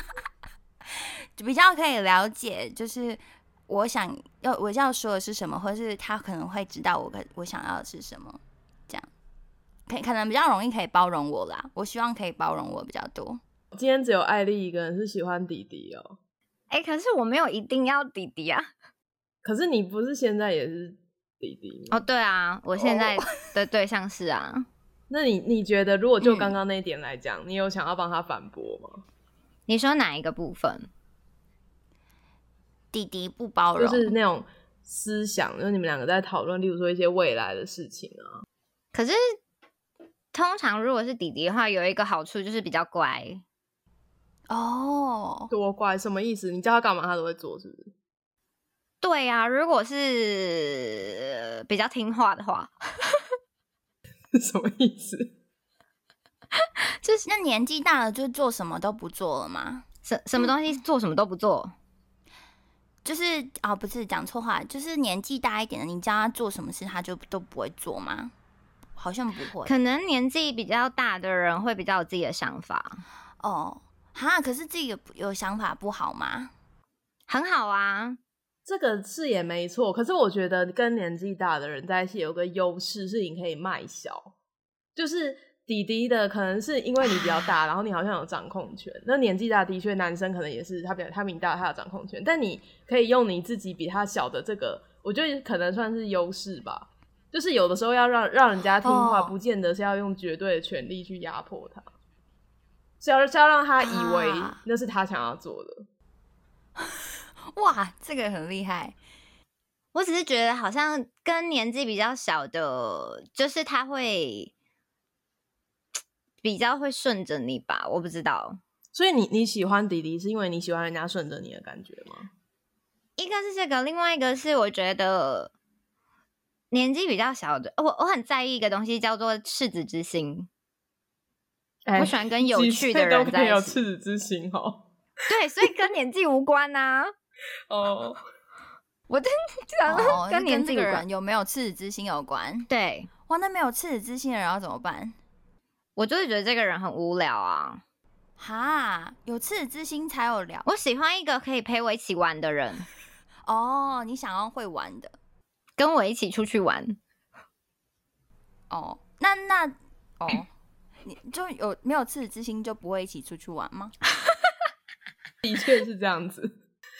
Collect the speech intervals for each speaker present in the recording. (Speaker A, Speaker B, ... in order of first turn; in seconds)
Speaker A: 0.9-9.1, 9.9-13.4, 22.8-23.1, 26.2-26.6, 32.9-34.1, 44.5-45.5, 57.2-59.9, 63.0-68.3, 69.0-69.7, 73.4-76.5, 98.8-99.3, 103.8-104.6, 107.5-109.0, 139.9-142.7, 143.3-145.2, 148.4-150.7, 153.5-155.2, 158.7-160.5, 161.0-163.9
Speaker B: 13.7-16.2, 19.4-22.0, 25.1-29.0, 33.8-38.4, 45.5-47.9, 54.3-55.3, 78.7-84.3, 85.0-101.9, 103.0-105.9, 118.9-122.3, 131.9-134.8, 137.7-138.2, 165.4-166.5
Speaker C: 16.7-18.7, 21.9-24.7, 29.7-30.9, 38.9-39.2, 40.3-43.4, 49.0-53.1, 60.0-61.7, 69.6-73.0, 77.3-78.2, 109.9-114.5, 116.4-118.6, 123.2-125.5, 126.7-130.5, 132.0-133.8, 135.3-137.1, 139.1-141.0, 142.7-143.1, 146.0-147.8, 150.7-152.9, 155.8-157.0